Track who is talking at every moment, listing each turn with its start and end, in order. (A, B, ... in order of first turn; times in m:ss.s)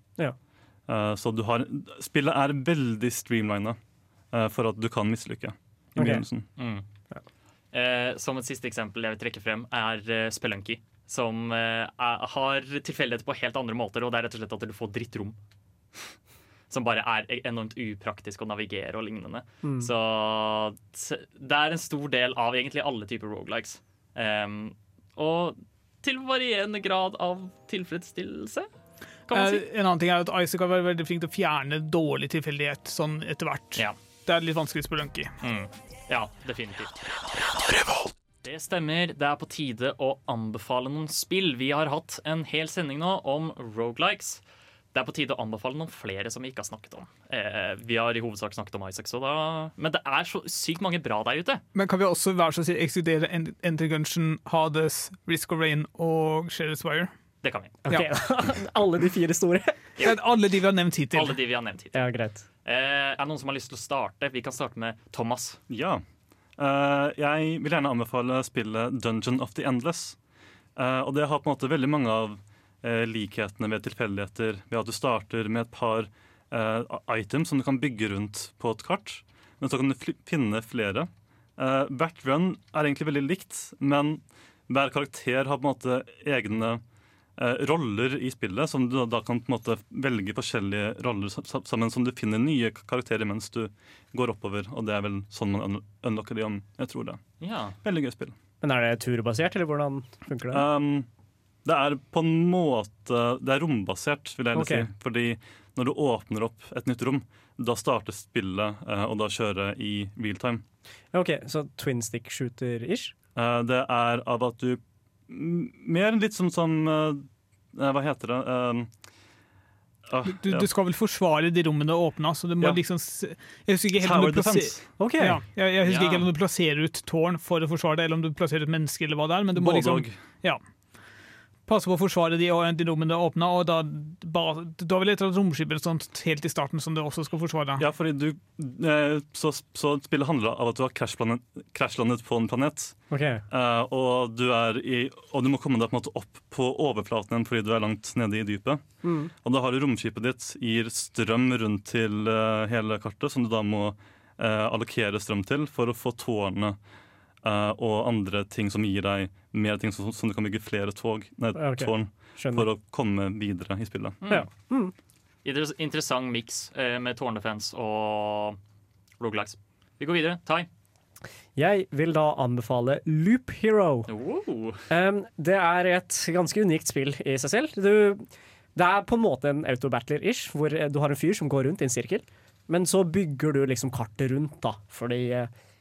0:00.9-0:03.8 A
0:04.3-0:06.4 A
0:06.0-0:06.2 B
0:06.6-0:06.8 C
0:07.7-0:15.4 C
0:16.7-0:28.7 C
0:19.6-0:19.9 B
0:29.3-0:29.6 C
0:29.3-0:35.3 D
0:35.4-0:36.9 C
0:38.4-0:44.4 C
0:44.9-0:51.6 C
0:51.7-0:57.1 D
0:57.4-0:57.8 C
0:57.8-0:59.8 B
1:00.0-1:01.4 D
1:01.1-1:02.1 C
1:01.9-1:02.4 B
1:02.6-1:05.6 C
1:05.7-1:06.0 A
1:06.6-1:10.2 A
1:10.8-1:26.8 A
1:27.4-1:37.2 A
1:37.4-1:37.8 C
1:37.8-1:38.3 A
1:38.6-1:40.6 B
1:40.5-1:41.0 A
1:41.6-1:50.6 A
1:44.5-1:44.9 B
1:51.1-1:53.1 B
1:53.4-1:58.9 A
2:00.1-2:00.7 A
2:00.3-2:10.6 D
2:04.0-2:05.0 A
2:05.0-2:05.4 B
2:05.8-2:06.3 C
2:09.5-2:10.2 A
2:11.7-2:17.8 D
2:17.8-2:23.0 A
2:23.1-2:23.4 B
2:23.5-2:28.8 A
2:29.0-2:29.3 B
2:29.4-2:36.8 A
2:37.4-2:44.4 A
2:41.6-2:42.6 B
2:44.3-2:44.9 B
2:45.4-2:48.6 C
2:49.2-2:50.7 C
2:51.6-2:54.1 B
2:54.1-2:54.8 C
2:54.9-3:05.5 B